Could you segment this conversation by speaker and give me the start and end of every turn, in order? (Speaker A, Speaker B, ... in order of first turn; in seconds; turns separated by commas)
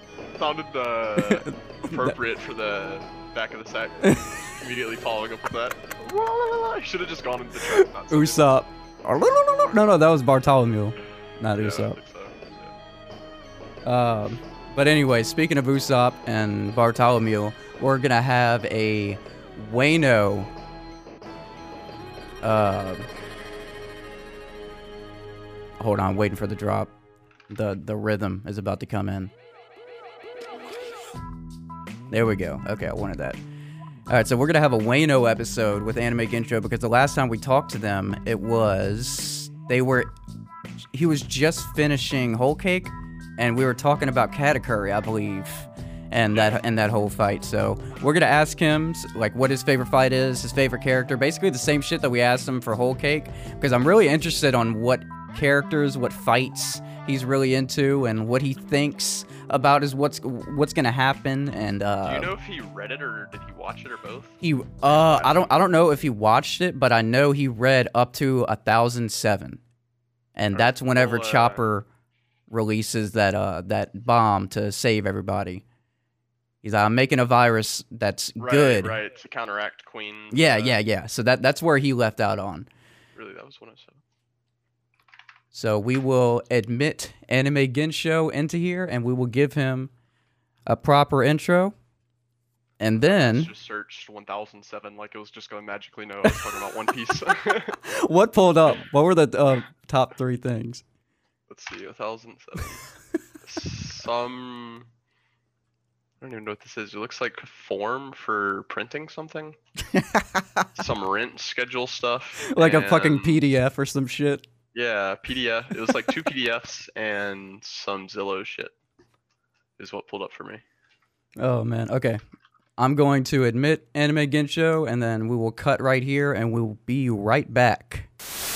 Speaker A: 0.4-8.5, Speaker B: 1.2-2.1, Speaker B: 4.0-4.3, Speaker B: 7.6-12.0, Speaker A: 11.6-12.7, Speaker B: 13.8-20.5, Speaker B: 22.4-23.1, Speaker B: 25.8-26.9, Speaker B: 27.5-29.3, Speaker B: 32.1-33.4, Speaker B: 34.1-40.1, Speaker B: 40.9-62.3, Speaker A: 46.3-46.6, Speaker A: 62.0-65.5, Speaker B: 64.4-69.6, Speaker B: 70.3-71.8, Speaker A: 70.5-71.7, Speaker B: 72.5-75.6, Speaker B: 76.6-79.0, Speaker A: 78.4-80.8, Speaker B: 80.3-82.7, Speaker A: 83.2-84.0, Speaker B: 85.5-89.9, Speaker B: 90.7-91.7, Speaker B: 92.8-93.5, Speaker A: 93.0-97.8, Speaker B: 97.8-100.8, Speaker A: 101.5-102.8, Speaker A: 103.4-104.9, Speaker A: 106.2-109.6, Speaker B: 109.9-110.7, Speaker A: 110.8-113.4, Speaker B: 112.5-114.5, Speaker A: 114.7-118.7, Speaker A: 119.8-120.6, Speaker B: 121.4-122.2, Speaker B: 122.8-128.1